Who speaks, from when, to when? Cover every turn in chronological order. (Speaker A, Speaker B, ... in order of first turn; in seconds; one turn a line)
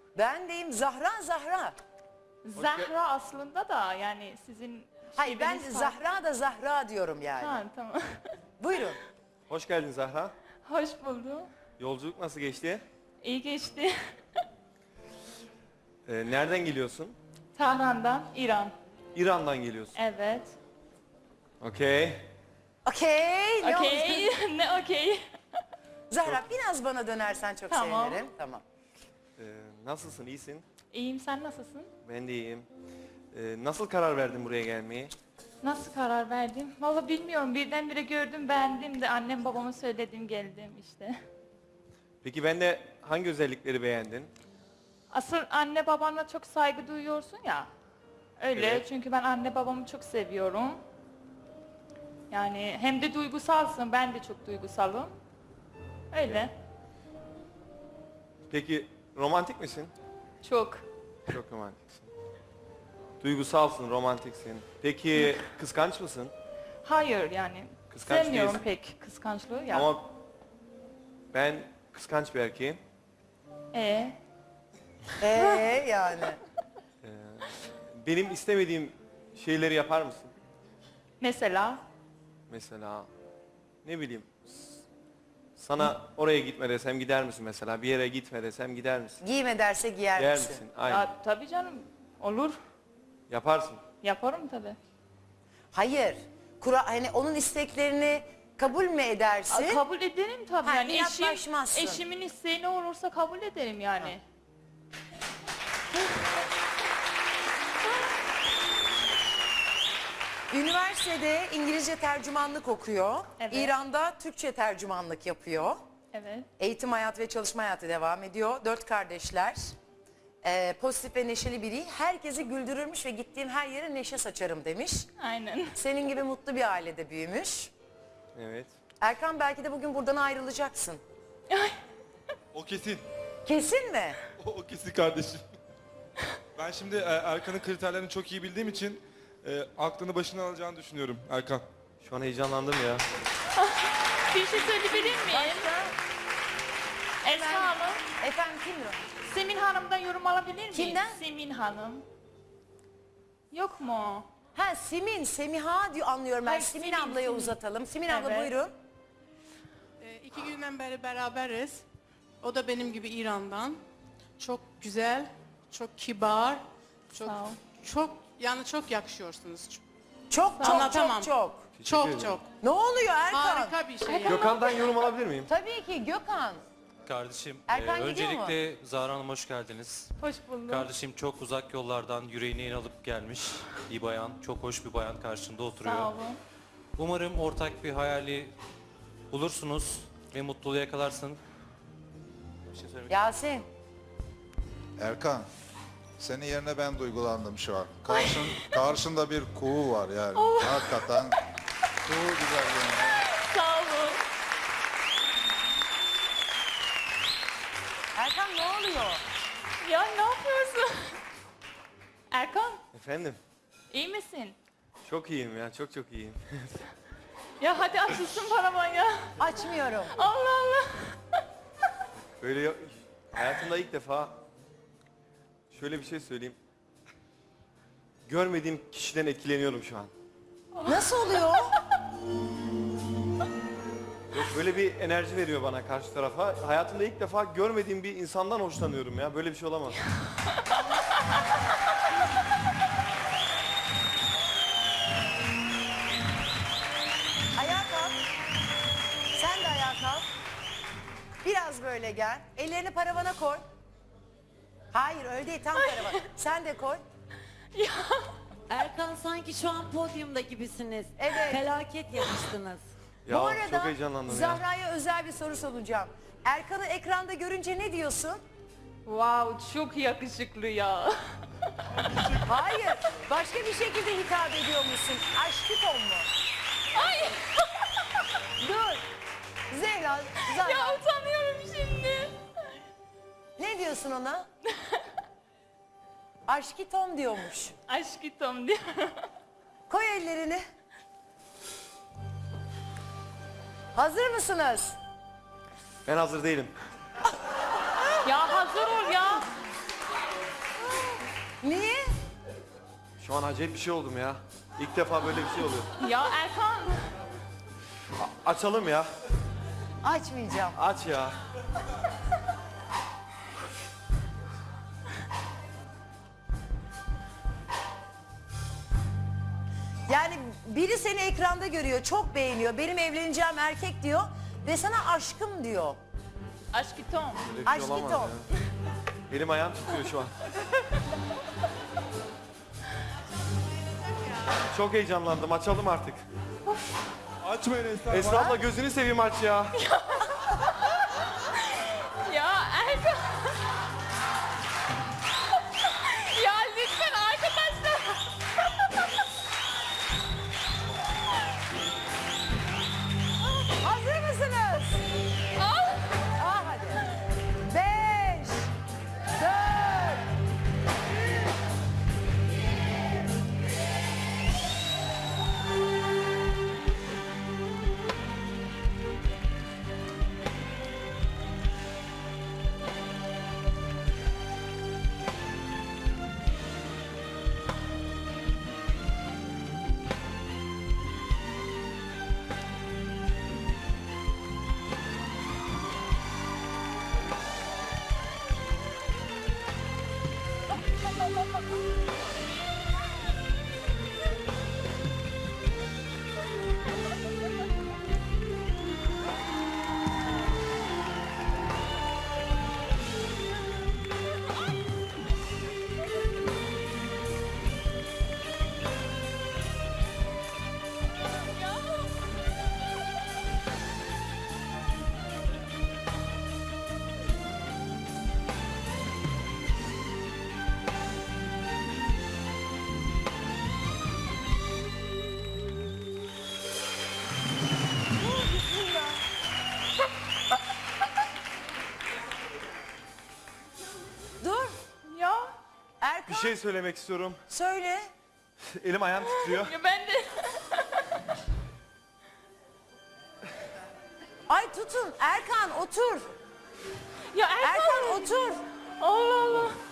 Speaker A: 0.1-1.8
Speaker B: 2.4-6.0
Speaker C: 2.5-2.9
Speaker A: 5.2-7.6
Speaker B: 7.4-8.3
Speaker A: 8.6-9.0
Speaker C: 9.5-10.3
Speaker B: 10.7-11.5
Speaker C: 11.8-12.8
Speaker B: 13.2-13.9
Speaker C: 16.1-17.2
Speaker B: 17.6-18.7
Speaker C: 19.1-19.9
Speaker B: 19.9-20.6
Speaker C: 21.6-22.3
Speaker A: 22.8-24.3
Speaker B: 23.6-25.2
Speaker A: 26.1-28.6
Speaker B: 27.7-28.2
Speaker C: 29.4-30.6
Speaker B: 30.9-31.9
Speaker C: 32.0-32.7
Speaker C: 33.3-35.1
Speaker B: 35.6-41.2
Speaker C: 42.2-44.3
Speaker B: 45.1-47.7
Speaker B: 48.4-50.8
Speaker C: 48.5-48.8
Speaker B: 52.3-55.1
Speaker B: 56.1-56.5
Speaker C: 58.5-59.9
Speaker B: 60.4-60.8
Speaker C: 61.3-62.1
Speaker C: 63.2-66.3
Speaker B: 66.8-69.9
Speaker C: 67.9-68.6
Speaker C: 69.7-70.1
Speaker C: 71.3-72.8
Speaker B: 73.7-74.2
Speaker A: 75.2-76.4
Speaker B: 75.4-75.7
Speaker C: 77.0-80.3
Speaker B: 81.2-81.8
Speaker C: 82.5-83.1
Speaker C: 83.8-84.8
Speaker C: 85.6-89.2
Speaker A: 89.2-90.6
Speaker C: 90.2-91.1
Speaker B: 90.9-92.6
Speaker C: 93.3-93.8
Speaker B: 94.0-94.8
Speaker A: 95.7-99.8
Speaker B: 99.5-104.2
Speaker A: 100.6-102.0
Speaker A: 110.5-115.8
Speaker B: 113.4-113.7
Speaker B: 116.1-116.5
Speaker A: 116.6-119.6
Speaker A: 120.4-125.1
Speaker B: 125.2-125.8
Speaker A: 125.8-127.7
Speaker C: 128.3-128.7
Speaker A: 129.0-131.0
Speaker B: 131.5-131.8
Speaker D: 132.5-133.1
Speaker A: 133.5-134.2
Speaker D: 134.4-135.4
Speaker D: 136.6-141.7
Speaker C: 142.0-143.1
Speaker B: 144.3-145.7
Speaker A: 144.8-145.9
Speaker B: 147.2-148.0
Speaker A: 147.3-149.0
Speaker B: 149.2-152.1
Speaker A: 150.7-151.2
Speaker B: 153.5-154.3
Speaker A: 154.6-158.7
Speaker B: 156.5-158.5
Speaker E: 160.0-161.8
Speaker E: 162.4-163.8
Speaker E: 164.4-169.8
Speaker B: 167.2-167.6
Speaker A: 170.3-171.6
Speaker B: 170.6-171.0
Speaker E: 170.6-172.5
Speaker C: 171.8-172.3
Speaker A: 172.6-173.8
Speaker E: 173.3-174.6
Speaker B: 174.1-174.5
Speaker C: 174.3-175.5
Speaker A: 175.5-176.6
Speaker F: 177.1-180.1
Speaker A: 177.7-178.6
Speaker B: 180.2-180.9
Speaker F: 180.7-186.1
Speaker B: 185.8-186.4
Speaker F: 187.2-188.5
Speaker F: 189.3-191.4
Speaker F: 192.8-193.0
Speaker A: 193.1-193.7
Speaker G: 195.0-195.5
Speaker G: 196.2-201.4
Speaker B: 198.1-198.7
Speaker B: 200.3-201.1
Speaker G: 202.1-203.2
Speaker B: 203.4-204.2
Speaker A: 208.2-209.2
Speaker B: 209.8-211.2
Speaker B: 212.3-212.8
Speaker C: 212.9-213.4
Speaker B: 213.9-214.6
Speaker C: 215.1-216.8
Speaker B: 217.6-219.4
Speaker A: 219.4-220.1
Speaker B: 220.1-221.2
Speaker C: 222.4-224.3
Speaker C: 225.7-226.6
Speaker C: 228.2-230.1
Speaker A: 230.8-231.8
Speaker C: 234.3-240.0
Speaker A: 247.6-248.2
Speaker A: 249.3-250.2
Speaker A: 251.4-253.6
Speaker A: 254.9-257.0
Speaker B: 255.8-256.1
Speaker B: 257.7-258.4
Speaker H: 258.7-262.9
Speaker A: 261.2-261.7
Speaker C: 263.2-264.6
Speaker A: 263.3-268.4
Speaker B: 269.1-271.3
Speaker D: 272.0-272.4
Speaker A: 272.4-276.3
Speaker B: 276.9-278.1
Speaker A: 278.6-279.0
Speaker A: 279.7-281.0
Speaker B: 280.5-282.4
Speaker A: 283.6-284.5
Speaker A: 286.4-287.8
Speaker B: 287.9-289.2
Speaker A: 289.9-290.6
Speaker A: 293.9-295.0
Speaker C: 296.1-296.8
Speaker B: 298.2-299.4
Speaker A: 301.6-302.1
Speaker C: 303.2-305.9
Speaker B: 306.0-307.0
Speaker C: 308.2-309.1
Speaker A: 310.0-310.8
Speaker C: 310.8-311.4
Speaker A: 320.1-326.0
Speaker B: 326.7-327.4
Speaker C: 327.4-328.4
Speaker A: 327.7-328.3
Speaker C: 329.3-330.3
Speaker C: 334.7-336.2
Speaker D: 337.4-338.6
Speaker C: 338.1-339.8
Speaker B: 339.8-340.6
Speaker B: 341.7-343.6
Speaker B: 345.9-348.2
Speaker A: 353.6-355.0
Speaker B: 355.6-356.0
Speaker A: 356.4-357.0
Speaker A: 357.7-358.7
Speaker A: 359.4-360.3
Speaker A: 428.2-429.2
Speaker A: 434.4-434.8
Speaker B: 435.1-435.5
Speaker A: 436.0-436.6
Speaker C: 436.3-437.4
Speaker A: 437.5-438.1
Speaker C: 438.6-439.7
Speaker B: 439.2-441.1
Speaker A: 444.5-446.3
Speaker B: 447.3-448.3
Speaker A: 447.6-448.6
Speaker B: 449.0-449.8